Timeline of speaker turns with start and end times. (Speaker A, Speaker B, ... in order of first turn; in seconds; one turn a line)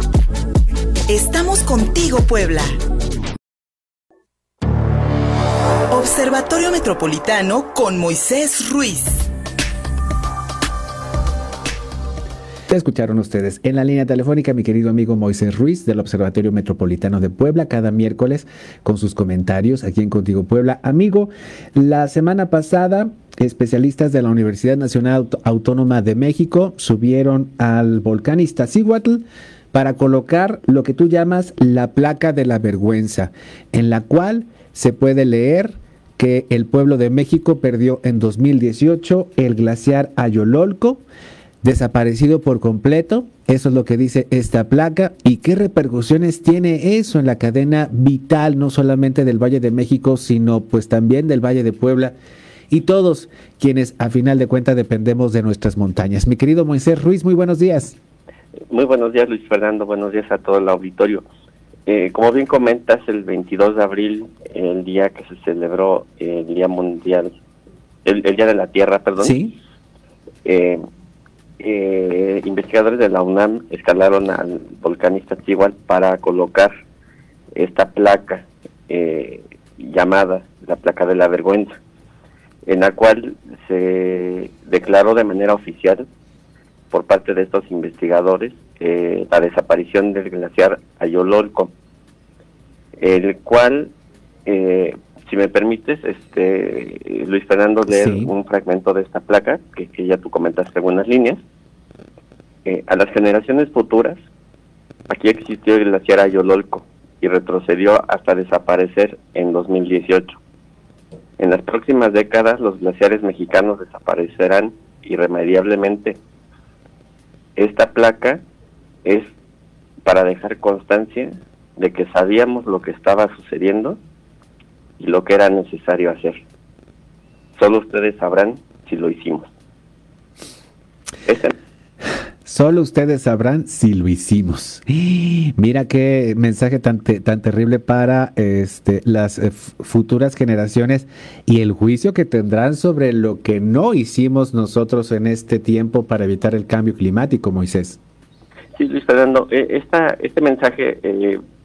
Speaker A: 1.1-2.7
Speaker A: 5.9-9.3
Speaker B: 12.7-41.0
Speaker B: 41.6-52.1
Speaker B: 52.7-58.0
Speaker C: 58.7-61.2
Speaker C: 61.9-67.3
Speaker C: 68.0-69.4
Speaker B: 69.2-69.5
Speaker C: 70.5-70.8
Speaker C: 71.6-76.7
Speaker C: 77.6-81.7
Speaker C: 82.7-86.0
Speaker C: 86.9-91.7
Speaker C: 93.0-93.9
Speaker C: 94.5-101.4
Speaker B: 97.9-98.3
Speaker C: 102.7-104.2
Speaker C: 105.1-110.4
Speaker C: 111.4-116.2
Speaker C: 117.6-118.4
Speaker C: 119.0-119.3
Speaker C: 120.0-124.0
Speaker C: 125.0-126.4
Speaker C: 127.6-129.5
Speaker C: 131.2-131.6
Speaker B: 132.4-148.0
Speaker C: 148.8-151.4